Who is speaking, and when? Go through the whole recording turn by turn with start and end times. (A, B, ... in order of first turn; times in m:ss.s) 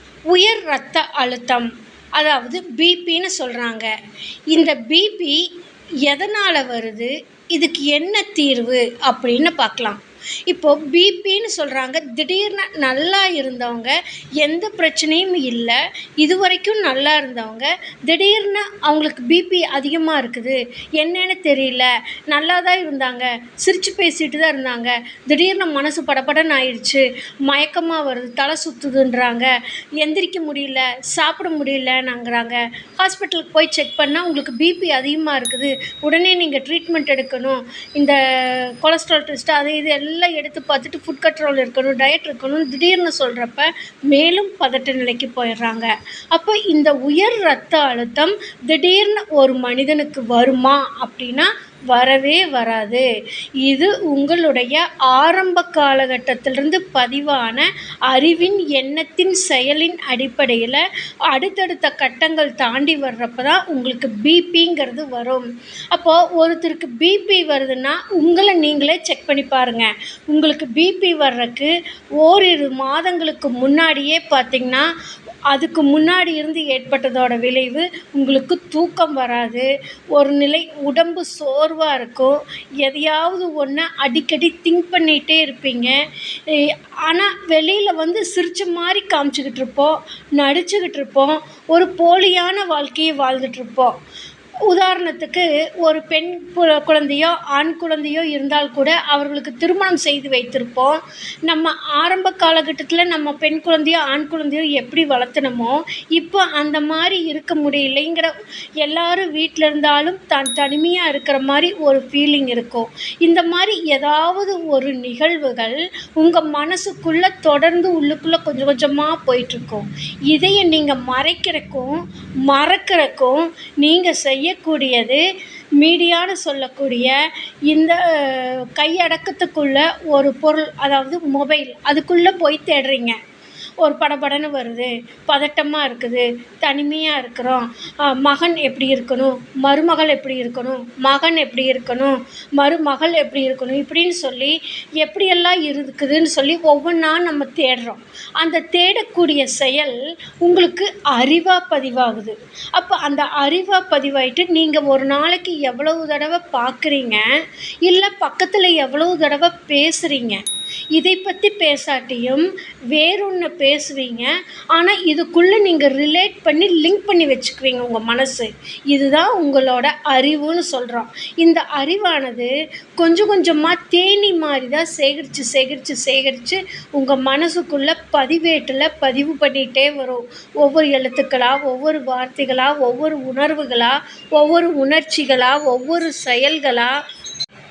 0:00.3-0:03.9 A
0:04.5-0:05.4 A
0:06.0-0:53.0 A
0:53.6-1:14.9 A
1:15.5-1:25.9 A
1:26.5-1:34.0 A
1:34.7-2:05.2 A
2:05.8-2:07.1 A
2:07.7-2:13.2 A
2:13.8-2:37.2 A
2:37.8-2:40.4 A
2:40.9-3:06.9 A